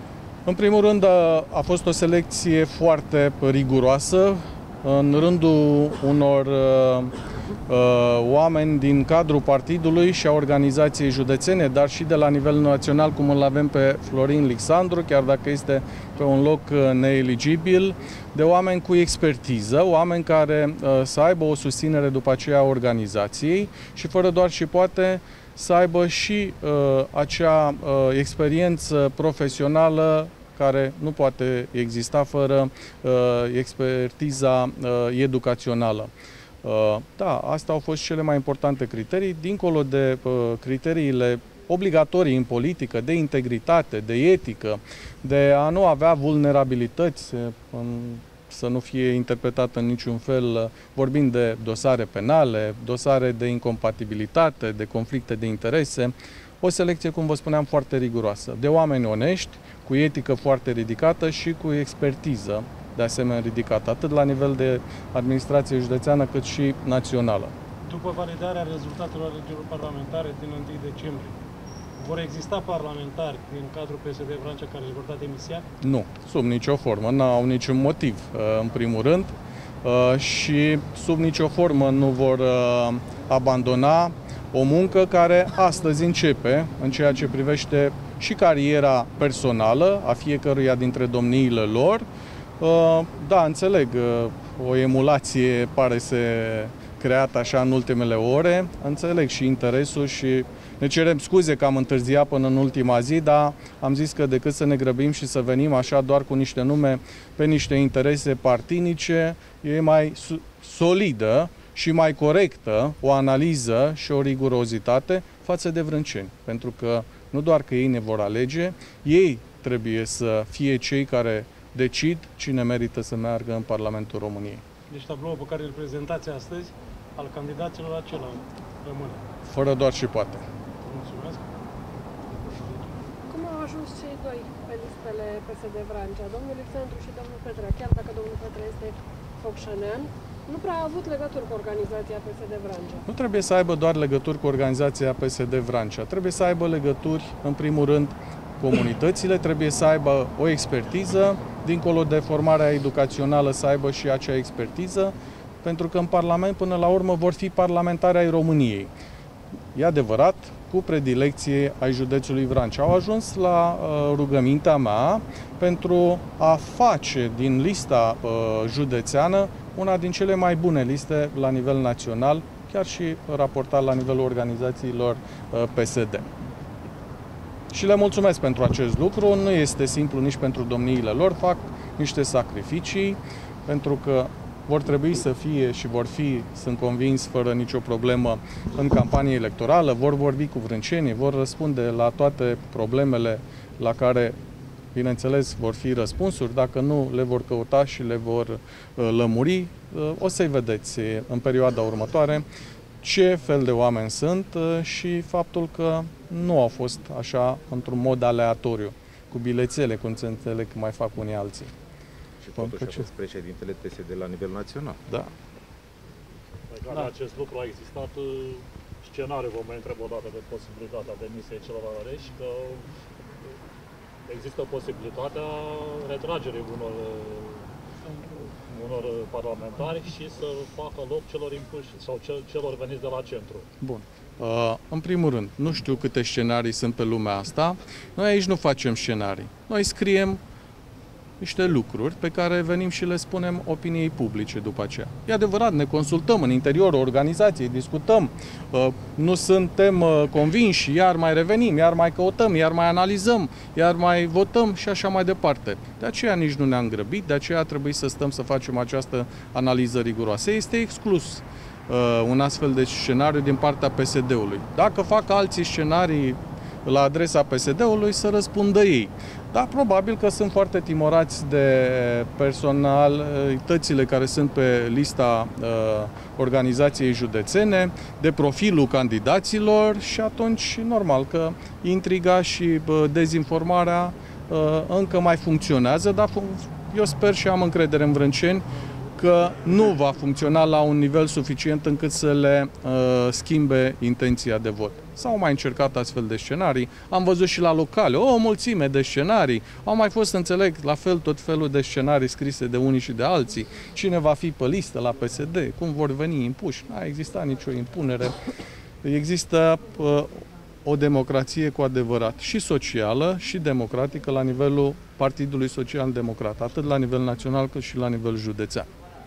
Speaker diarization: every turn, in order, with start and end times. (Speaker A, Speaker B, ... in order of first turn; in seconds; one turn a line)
Speaker A: 0.5-7.1
Speaker A: 7.7-36.1
Speaker A: 36.6-67.5
Speaker B: 67.8-71.3
Speaker B: 72.0-75.6
Speaker A: 75.8-92.0
Speaker A: 92.6-124.6
Speaker B: 124.9-129.2
Speaker A: 129.4-130.4
Speaker B: 130.8-131.4
Speaker B: 132.3-133.1
Speaker C: 133.3-143.0
Speaker A: 143.1-158.9
Speaker A: 159.7-176.3
Speaker A: 177.7-194.3
Speaker A: 194.9-202.4
Speaker A: 203.0-211.7
Speaker D: 212.4-215.0
Speaker A: 212.6-213.1
Speaker E: 216.7-222.9
Speaker E: 224.3-227.7
Speaker E: 228.6-233.6
Speaker A: 233.8-240.4
Speaker A: 241.4-288.6
Speaker A: 289.1-308.3
Speaker A: 309.0-318.9